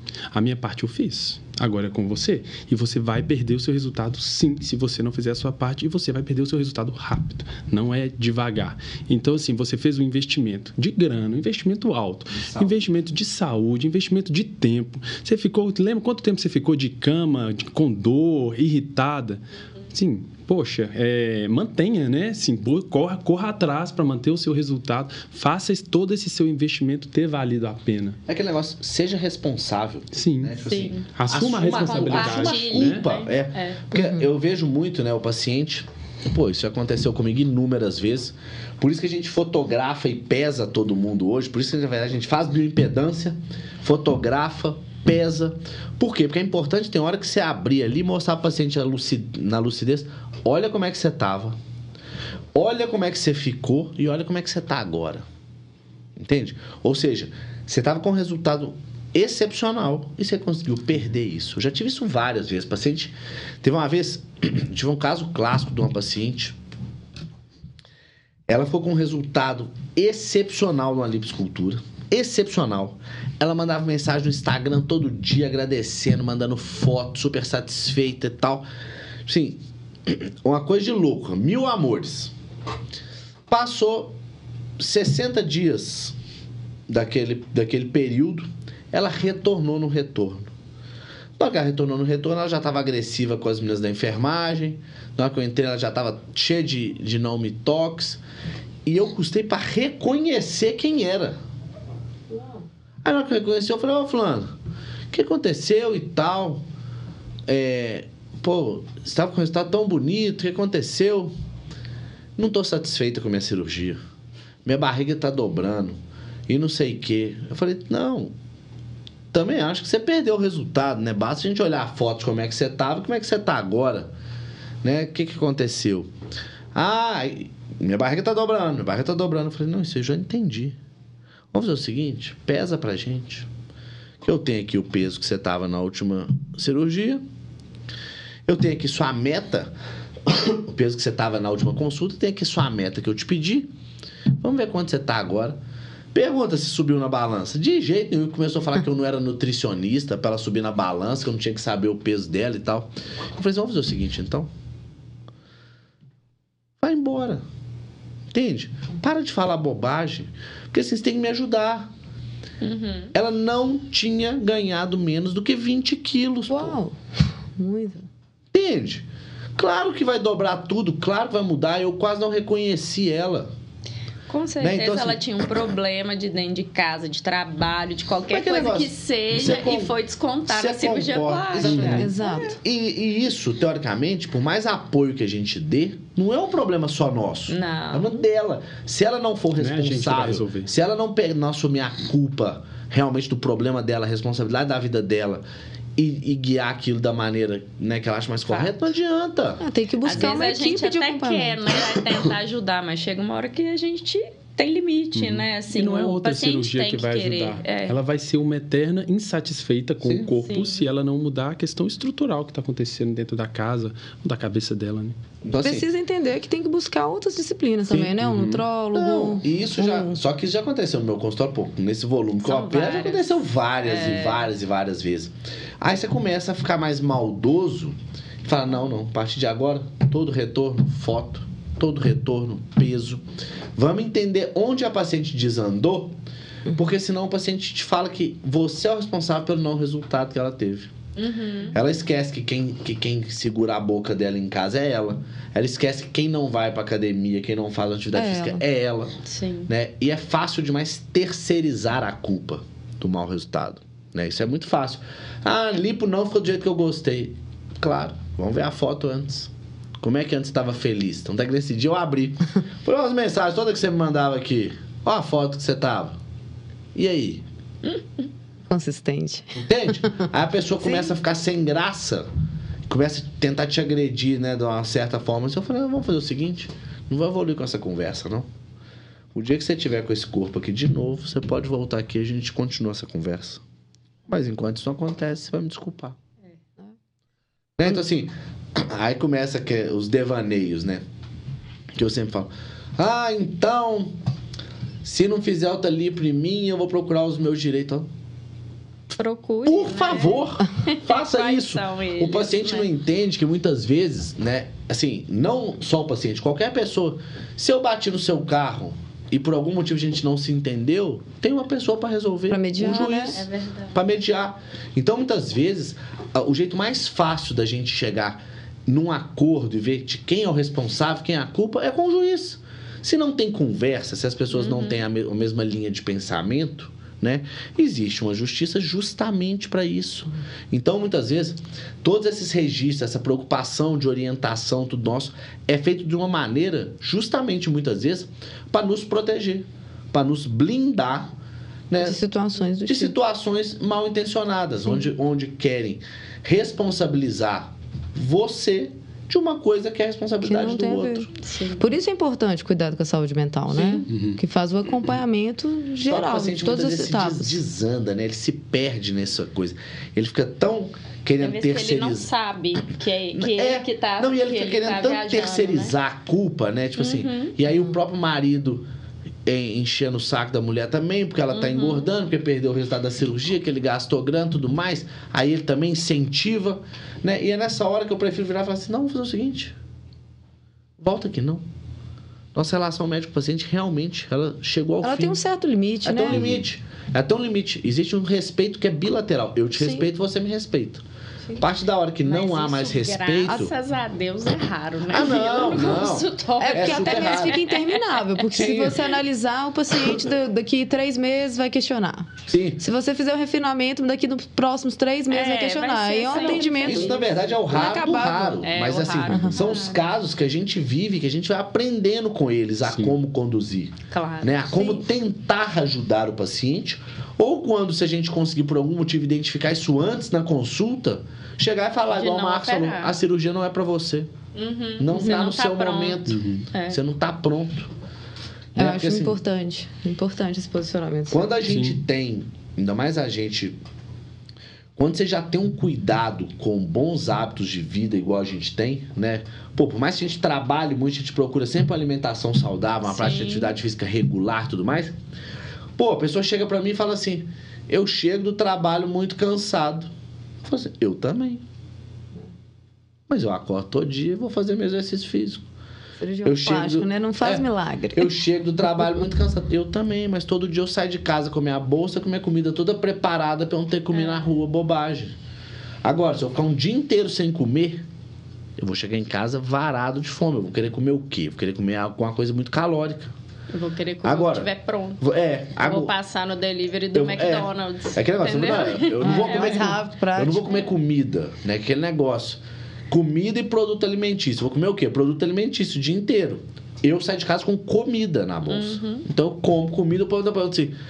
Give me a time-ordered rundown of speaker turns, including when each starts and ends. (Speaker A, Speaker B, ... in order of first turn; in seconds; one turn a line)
Speaker A: 0.3-28.2
Speaker B: 12.3-12.8
Speaker B: 28.3-51.6
Speaker A: 30.1-33.0
Speaker C: 30.6-33.8
Speaker D: 33.9-34.2
Speaker B: 52.5-55.2
Speaker B: 56.1-66.6
Speaker B: 68.5-78.7
Speaker B: 79.2-82.3
Speaker B: 83.5-84.2
Speaker B: 84.8-86.2
Speaker B: 86.9-90.5
Speaker B: 91.4-98.2
Speaker B: 98.8-101.4
Speaker B: 103.0-104.5
Speaker B: 105.1-106.6
Speaker B: 107.5-111.3
Speaker B: 112.4-114.0
Speaker B: 114.6-118.3
Speaker B: 119.3-124.1
Speaker B: 124.8-126.1
Speaker B: 126.7-130.8
Speaker B: 131.5-133.5
Speaker B: 134.2-137.2
Speaker B: 138.4-139.7
Speaker B: 140.2-143.7
Speaker B: 144.4-145.6
Speaker B: 146.1-154.5
Speaker B: 156.8-157.4
Speaker B: 158.3-161.9
Speaker C: 162.6-163.1
Speaker B: 163.1-166.8
Speaker D: 166.5-167.0
Speaker D: 167.6-168.1
Speaker B: 168.5-169.0
Speaker B: 169.6-173.5
Speaker C: 174.3-182.3
Speaker B: 174.6-175.5
Speaker B: 178.3-179.9
Speaker B: 180.5-195.4
Speaker A: 181.6-182.1
Speaker D: 181.8-182.6
Speaker C: 187.5-188.2
Speaker A: 189.6-190.7
Speaker B: 196.0-199.6
Speaker D: 199.6-201.6
Speaker C: 200.0-207.9
Speaker A: 205.1-215.2
Speaker B: 210.0-210.3
Speaker C: 210.4-210.8
Speaker B: 215.4-215.9
Speaker D: 215.6-220.2
Speaker B: 217.9-218.3
Speaker A: 218.2-218.6
Speaker B: 218.9-233.2
Speaker C: 222.4-224.5
Speaker B: 233.8-236.2
Speaker B: 236.7-240.9
Speaker C: 241.2-241.7
Speaker B: 241.7-249.2
Speaker D: 248.1-248.6
Speaker C: 249.2-249.7
Speaker B: 249.7-266.2
Speaker B: 266.9-267.4
Speaker C: 267.8-268.2
Speaker D: 268.7-269.6
Speaker B: 269.5-272.3
Speaker B: 272.9-278.5
Speaker B: 279.3-283.6
Speaker B: 284.3-286.2
Speaker B: 287.8-291.0
Speaker B: 291.9-294.2
Speaker B: 295.0-298.1
Speaker C: 299.1-302.9
Speaker B: 299.6-341.3
Speaker D: 312.5-313.4
Speaker C: 313.3-314.0
Speaker C: 324.5-325.0
Speaker B: 341.9-342.2
Speaker D: 342.0-343.1
Speaker B: 342.9-351.3
Speaker D: 350.4-357.6
Speaker C: 351.4-351.8
Speaker B: 353.7-354.1
Speaker A: 354.1-354.4
Speaker B: 356.1-362.3
Speaker C: 361.4-365.9
Speaker B: 363.3-368.8
Speaker C: 367.0-367.6
Speaker B: 369.4-379.8
Speaker C: 371.5-372.1
Speaker B: 381.0-381.6
Speaker B: 382.5-385.4
Speaker D: 385.0-386.4
Speaker B: 386.0-391.0
Speaker D: 389.8-390.0
Speaker B: 391.6-393.7
Speaker C: 392.2-399.1
Speaker B: 395.1-397.6
Speaker D: 396.6-408.6
Speaker B: 402.5-402.8
Speaker C: 405.3-407.2
Speaker B: 406.3-424.3
Speaker C: 408.6-410.0
Speaker D: 409.3-409.6
Speaker A: 412.9-413.1
Speaker C: 414.1-415.0
Speaker C: 422.1-423.1
Speaker C: 424.5-427.0
Speaker B: 425.0-427.9
Speaker A: 426.3-426.6
Speaker B: 428.7-429.4
Speaker D: 428.8-431.5
Speaker B: 431.3-433.8
Speaker A: 431.6-432.0
Speaker B: 434.9-445.1
Speaker C: 443.0-443.7
Speaker B: 446.0-450.1
Speaker B: 450.6-451.6
Speaker B: 453.3-455.6
Speaker D: 456.2-458.3
Speaker B: 456.4-465.4
Speaker C: 464.1-464.4
Speaker B: 466.0-468.0
Speaker B: 468.8-473.3
Speaker C: 473.7-475.2
Speaker B: 474.2-474.7
Speaker B: 475.2-476.1
Speaker C: 475.8-479.9
Speaker B: 477.1-490.9
Speaker D: 479.2-480.7
Speaker C: 488.6-489.2